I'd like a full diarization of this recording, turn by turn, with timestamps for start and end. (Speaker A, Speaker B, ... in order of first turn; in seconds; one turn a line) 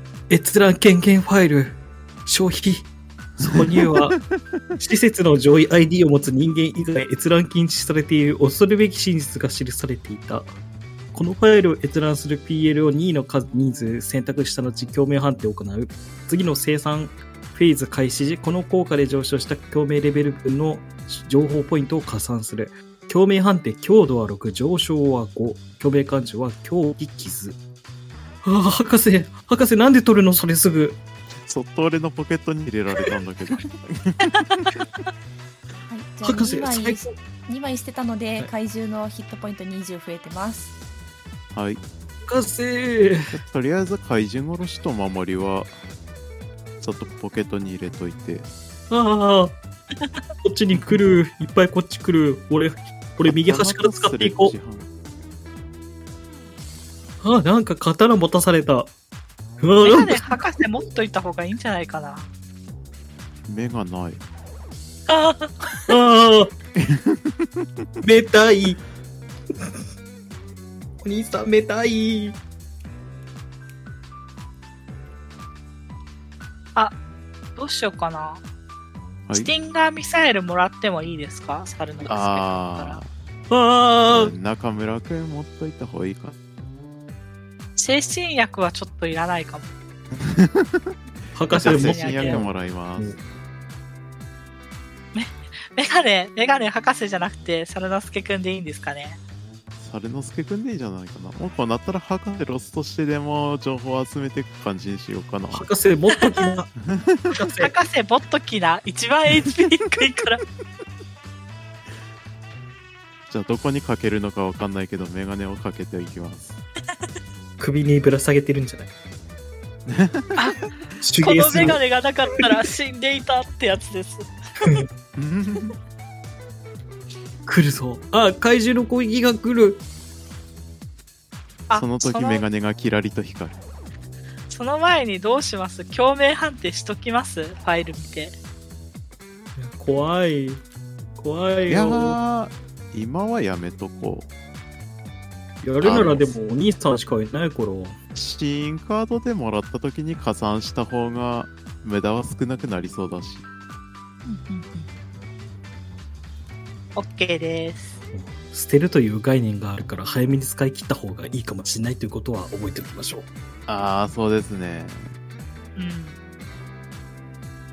Speaker A: 0.3-4.2
Speaker B: 4.2-4.6
Speaker A: 4.8-10.5
Speaker A: 11.1-27.6
Speaker A: 28.4-31.0
Speaker B: 31.4-34.7
Speaker C: 35.9-40.7
Speaker A: 36.2-37.1
Speaker B: 41.5-41.8
Speaker A: 42.2-43.4
Speaker B: 43.3-45.7
Speaker B: 46.8-48.5
Speaker A: 48.9-49.6
Speaker A: 50.4-54.5
Speaker B: 53.2-54.9
Speaker A: 57.2-58.9
Speaker A: 59.6-60.4
Speaker D: 59.8-62.3
Speaker B: 63.5-64.2
Speaker D: 65.1-65.9
Speaker A: 65.9-66.5
Speaker B: 66.7-67.9
Speaker A: 68.0-68.8
Speaker A: 71.0-72.4
Speaker D: 77.5-78.4
Speaker D: 79.3-83.0
Speaker B: 82.0-83.1
Speaker A: 83.5-84.3
Speaker B: 84.1-86.4
Speaker D: 87.8-89.8
Speaker B: 90.1-90.9
Speaker A: 91.3-93.2
Speaker D: 91.5-92.4
Speaker B: 91.5-93.2
Speaker D: 95.1-99.2
Speaker B: 99.8-105.7
Speaker A: 105.5-106.7
Speaker D: 106.2-106.5
Speaker B: 106.9-107.2
Speaker A: 107.3-107.7
Speaker D: 107.6-110.4
Speaker B: 113.3-116.6
Speaker A: 117.6-118.9
Speaker B: 119.8-120.4
Speaker D: 120.3-124.7
Speaker A: 121.0-121.8
Speaker B: 125.1-125.8
Speaker A: 127.5-129.8
Speaker D: 131.7-132.4
Speaker B: 131.7-133.6
Speaker D: 134.5-138.4
Speaker A: 139.6-140.6
Speaker A: 141.2-142.2
Speaker B: 141.7-144.3
Speaker A: 145.6-148.0
Speaker B: 145.8-146.3
Speaker B: 148.1-153.4
Speaker D: 154.2-154.9
Speaker D: 156.9-158.0
Speaker A: 158.1-163.3
Speaker B: 163.7-165.1
Speaker D: 165.8-166.2